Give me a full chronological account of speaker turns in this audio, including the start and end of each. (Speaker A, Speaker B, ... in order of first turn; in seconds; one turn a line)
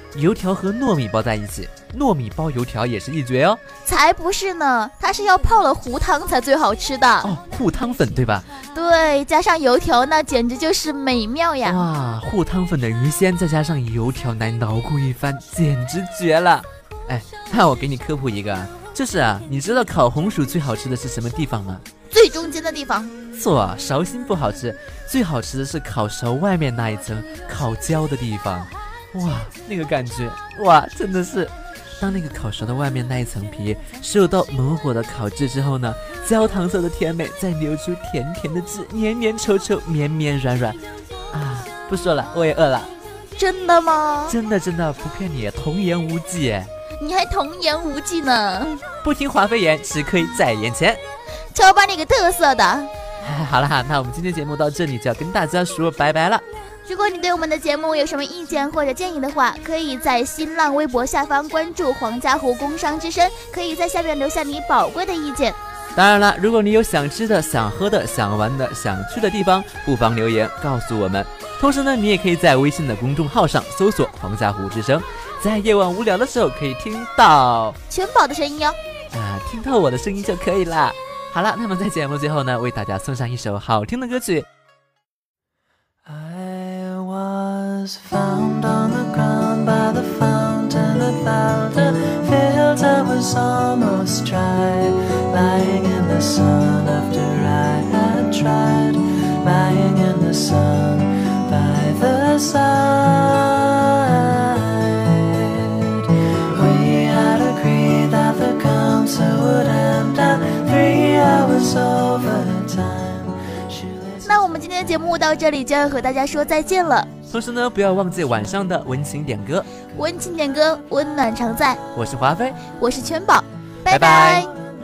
Speaker A: 0.1-3.6
Speaker B: 3.8-7.3
Speaker A: 7.2-8.5
Speaker B: 8.7-11.8
Speaker A: 11.6-21.8
Speaker B: 22.1-23.1
Speaker A: 23.3-40.8
Speaker A: 41.3-42.9
Speaker B: 43.4-44.4
Speaker A: 44.3-46.7
Speaker B: 47.0-48.8
Speaker A: 49.0-51.0
Speaker B: 51.5-52.9
Speaker A: 53.2-56.4
Speaker B: 56.9-65.6
Speaker A: 66.0-77.8
Speaker B: 77.9-78.8
Speaker A: 79.1-84.5
Speaker C: 86.1-113.3
Speaker B: 114.2-117.1
Speaker A: 117.3-119.7
Speaker B: 120.0-121.8
Speaker A: 121.9-122.6
Speaker B: 122.8-124.5
Speaker A: 123.9-124.5